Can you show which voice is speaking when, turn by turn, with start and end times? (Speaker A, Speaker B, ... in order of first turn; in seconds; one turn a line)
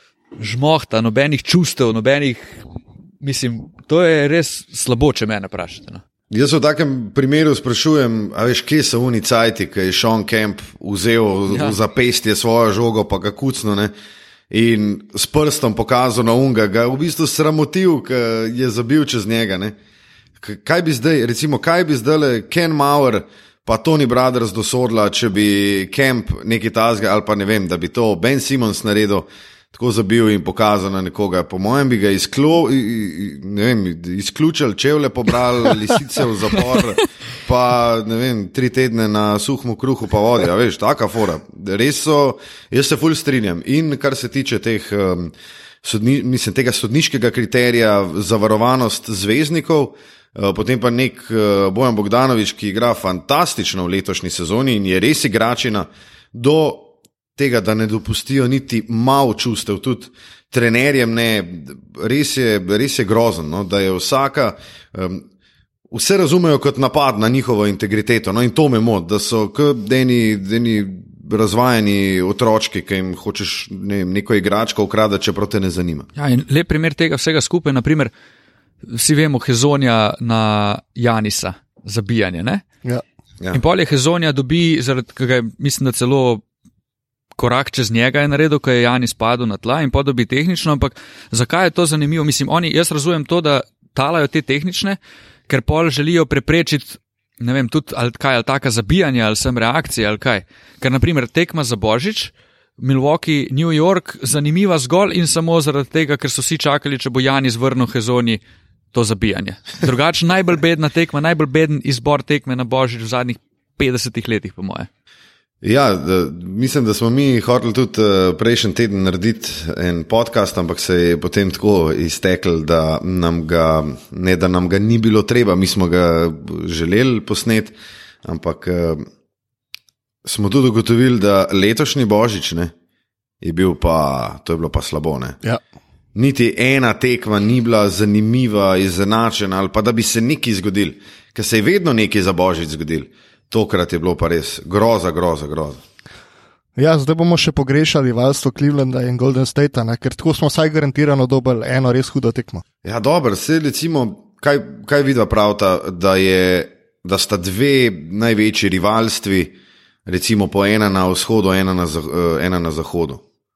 Speaker A: 0.4-2.6
Speaker A: 3.2-6.0
Speaker B: 6.3-13.9
Speaker A: 11.5-11.8
Speaker B: 14.5-19.8
Speaker B: 20.4-65.3
Speaker B: 65.9-76.1
Speaker A: 76.2-78.1
Speaker A: 78.9-82.6
Speaker A: 83.5-86.4
Speaker A: 87.4-95.0
Speaker A: 95.5-108.4
Speaker A: 108.9-114.9
Speaker B: 115.6-127.7
Speaker B: 128.2-129.1
Speaker B: 130.2-132.7
Speaker B: 133.4-135.4
Speaker B: 136.2-145.8
Speaker C: 146.8-152.6
Speaker B: 152.8-159.5
Speaker B: 160.1-163.2